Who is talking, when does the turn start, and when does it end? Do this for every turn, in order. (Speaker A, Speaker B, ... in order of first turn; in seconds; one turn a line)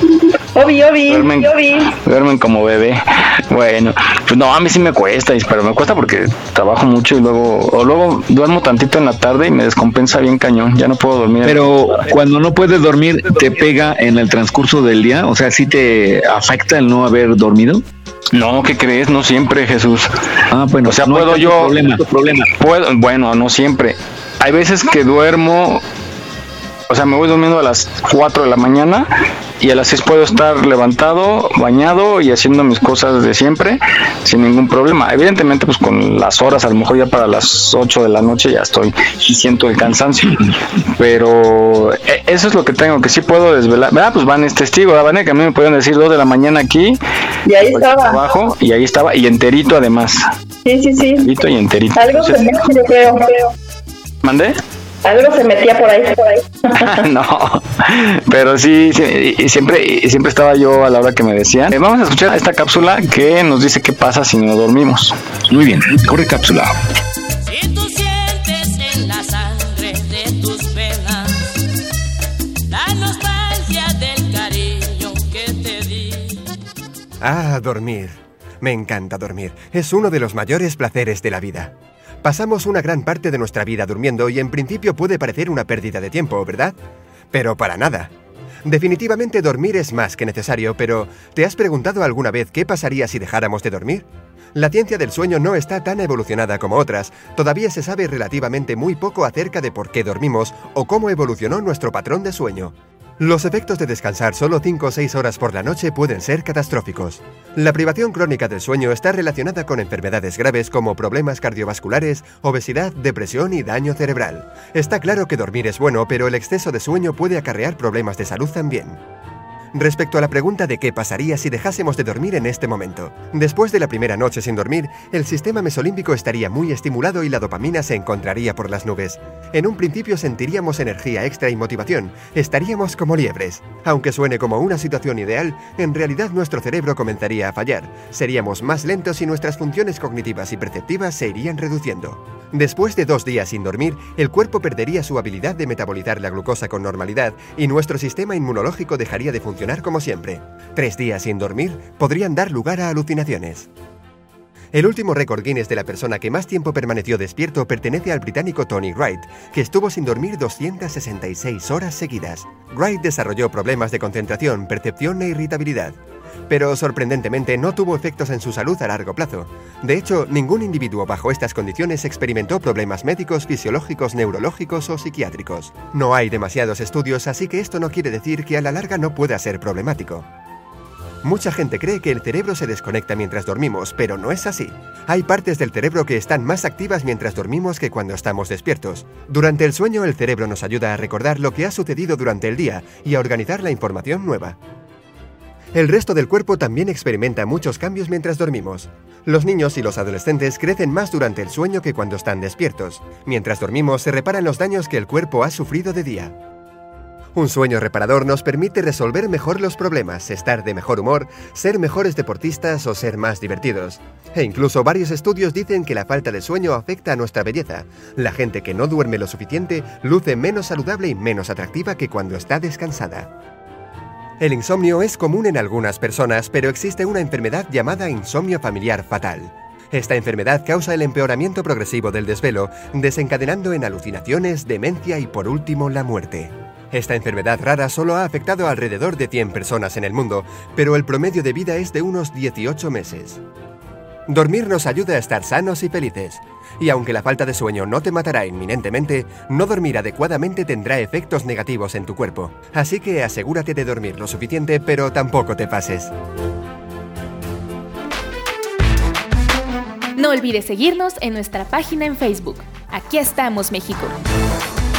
Speaker A: 0.6-1.9
Speaker B: 1.1-1.5
Speaker B: 2.0-12.1
Speaker C: 11.4-17.8
Speaker B: 18.3-20.1
Speaker C: 20.5-22.5
Speaker B: 20.9-22.0
Speaker B: 22.6-25.8
Speaker B: 26.9-29.1
Speaker B: 29.6-40.4
Speaker B: 41.0-47.0
Speaker A: 47.5-48.2
Speaker B: 47.6-50.2
Speaker A: 50.6-51.3
Speaker B: 51.2-52.6
Speaker A: 52.0-53.5
Speaker B: 54.2-54.6
Speaker A: 55.0-57.0
Speaker B: 56.8-65.2
Speaker C: 65.5-66.7
Speaker D: 67.5-71.4
Speaker D: 72.7-76.4
Speaker E: 77.2-86.8
Speaker E: 87.3-88.1
Speaker E: 88.7-119.0
Speaker E: 119.7-153.7
Speaker E: 154.7-166.0
Speaker E: 166.5-180.3
Speaker E: 181.2-194.6
Speaker E: 195.7-206.3
Speaker E: 207.3-223.3
Speaker E: 224.4-243.4
Speaker E: 244.3-256.1
Speaker F: 260.2-264.1